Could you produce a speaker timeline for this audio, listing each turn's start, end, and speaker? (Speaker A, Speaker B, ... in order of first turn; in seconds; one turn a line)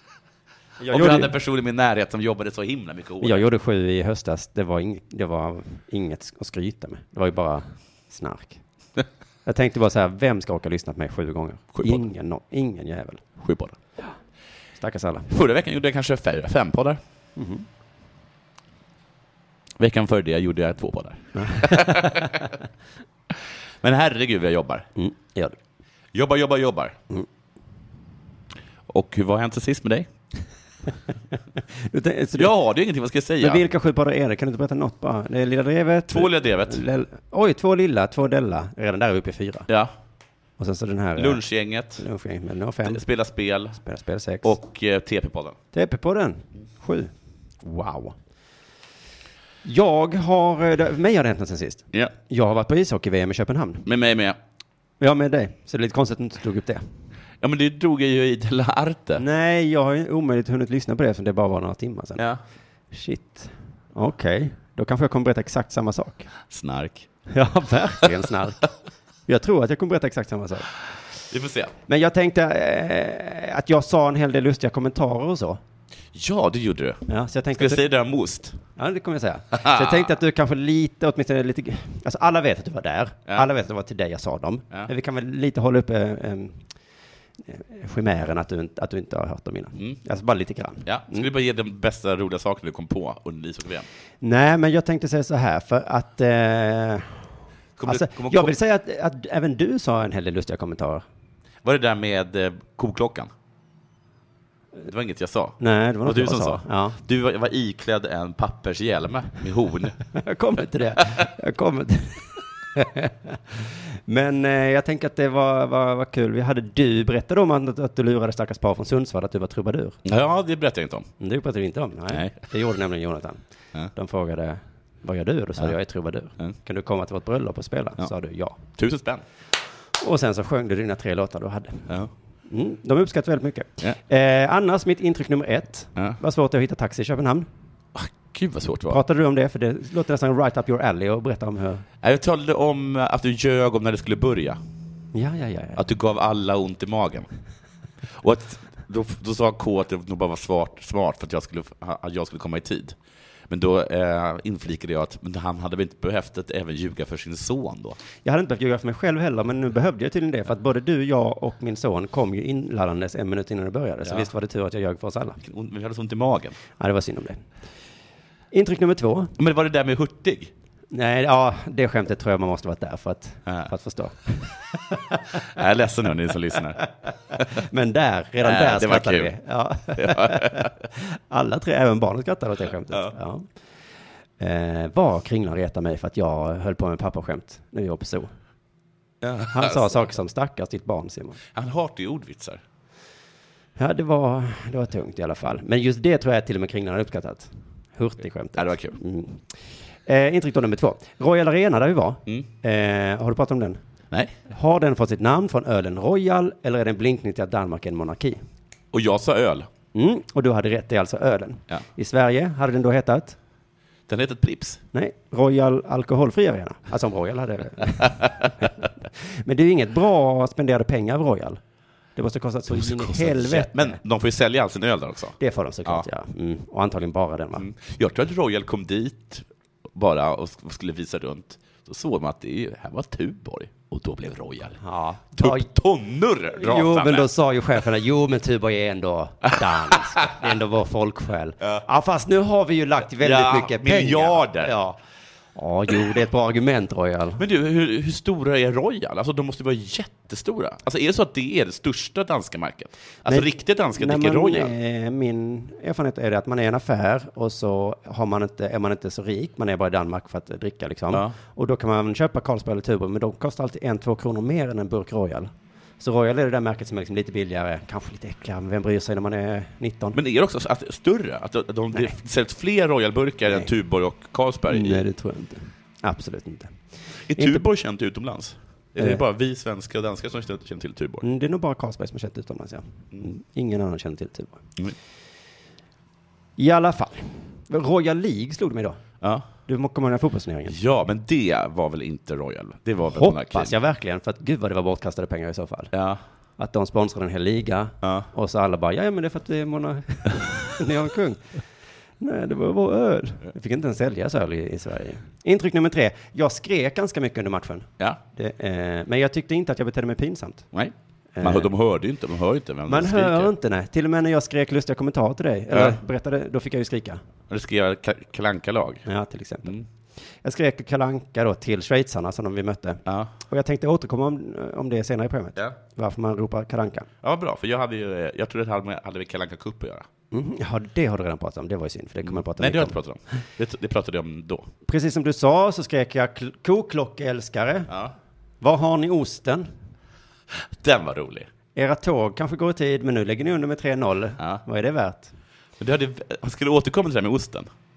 Speaker A: 0.8-1.3
Speaker B: 0.9-3.4
Speaker A: 3.2-8.6
Speaker A: 9.4-13.2
Speaker B: 11.7-12.0
Speaker B: 13.4-13.8
Speaker A: 14.8-15.3
Speaker B: 15.3-17.0
Speaker A: 17.4-17.6
Speaker B: 19.8-22.5
Speaker A: 21.3-22.5
Speaker B: 23.3-24.9
Speaker A: 24.9-25.6
Speaker B: 26.1-27.0
Speaker B: 28.9-30.1
Speaker A: 31.8-32.5
Speaker B: 32.3-33.6
Speaker A: 33.4-39.7
Speaker B: 36.1-36.8
Speaker A: 40.6-41.4
Speaker B: 41.1-42.0
Speaker A: 41.9-43.0
Speaker B: 42.8-43.8
Speaker A: 43.8-44.5
Speaker B: 44.4-45.6
Speaker A: 45.7-48.1
Speaker A: 49.6-53.9
Speaker B: 53.9-54.4
Speaker A: 55.0-56.9
Speaker B: 57.4-59.2
Speaker A: 59.2-62.2
Speaker B: 62.2-62.4
Speaker A: 62.9-66.3
Speaker B: 66.5-67.1
Speaker A: 67.3-68.7
Speaker A: 69.3-70.8
Speaker B: 71.3-71.7
Speaker A: 71.9-75.6
Speaker B: 76.1-77.0
Speaker A: 77.1-77.8
Speaker B: 77.5-78.6
Speaker A: 78.8-86.7
Speaker B: 79.5-80.1
Speaker A: 87.4-91.3
Speaker B: 90.8-93.8
Speaker A: 94.2-97.2
Speaker B: 97.8-98.5
Speaker A: 97.8-101.0
Speaker B: 101.6-103.3
Speaker B: 104.8-110.0
Speaker A: 105.6-107.0
Speaker A: 110.1-120.0
Speaker B: 120.0-121.1
Speaker A: 121.2-128.6
Speaker B: 122.1-122.5
Speaker B: 128.7-129.2
Speaker A: 130.0-131.9
Speaker A: 132.5-137.5
Speaker B: 137.9-139.0
Speaker A: 138.9-141.8
Speaker B: 142.0-144.6
Speaker A: 145.1-145.8
Speaker B: 145.8-147.3
Speaker B: 148.2-152.9
Speaker B: 153.5-158.0
Speaker A: 158.2-165.4
Speaker B: 164.0-164.3
Speaker B: 165.4-166.6
Speaker A: 166.8-167.5
Speaker A: 168.5-169.3
Speaker B: 169.4-170.5
Speaker A: 170.9-175.5
Speaker B: 175.3-177.4
Speaker A: 176.8-183.5
Speaker B: 178.4-179.3
Speaker B: 179.9-180.7
Speaker A: 184.4-188.3
Speaker B: 189.2-190.1
Speaker A: 189.5-191.4
Speaker B: 191.5-192.6
Speaker A: 193.8-203.8
Speaker B: 198.6-199.0
Speaker A: 204.5-208.4
Speaker B: 208.9-209.7
Speaker A: 209.9-213.4
Speaker B: 214.1-214.8
Speaker A: 214.9-221.6
Speaker B: 218.0-218.4
Speaker A: 222.2-224.0
Speaker B: 222.7-226.0
Speaker A: 225.4-227.7
Speaker B: 227.6-234.8
Speaker A: 234.8-235.7
Speaker B: 235.3-237.3
Speaker A: 236.5-245.0
Speaker B: 239.6-240.5
Speaker B: 243.2-244.7
Speaker A: 245.5-247.4
Speaker B: 247.4-254.7
Speaker A: 253.3-270.2
Speaker B: 270.1-275.0
Speaker A: 274.7-276.8
Speaker B: 277.2-281.2
Speaker A: 277.3-277.6
Speaker A: 279.0-279.2
Speaker A: 281.2-284.6
Speaker A: 286.6-289.0
Speaker A: 289.7-290.8
Speaker B: 290.7-293.7
Speaker A: 293.1-295.9
Speaker B: 295.9-296.2
Speaker A: 296.6-301.5
Speaker B: 298.0-298.3
Speaker A: 302.2-310.7
Speaker B: 310.7-313.5
Speaker A: 311.3-311.7
Speaker A: 312.9-317.2
Speaker B: 315.7-316.0
Speaker B: 317.5-319.1
Speaker A: 319.1-319.8
Speaker A: 320.4-327.1
Speaker B: 323.1-323.3
Speaker B: 327.2-330.1
Speaker A: 330.3-332.9
Speaker B: 332.3-334.7
Speaker A: 334.9-337.9
Speaker B: 337.9-338.1
Speaker A: 338.6-339.7
Speaker B: 340.5-341.5
Speaker A: 341.7-345.3
Speaker B: 345.8-347.7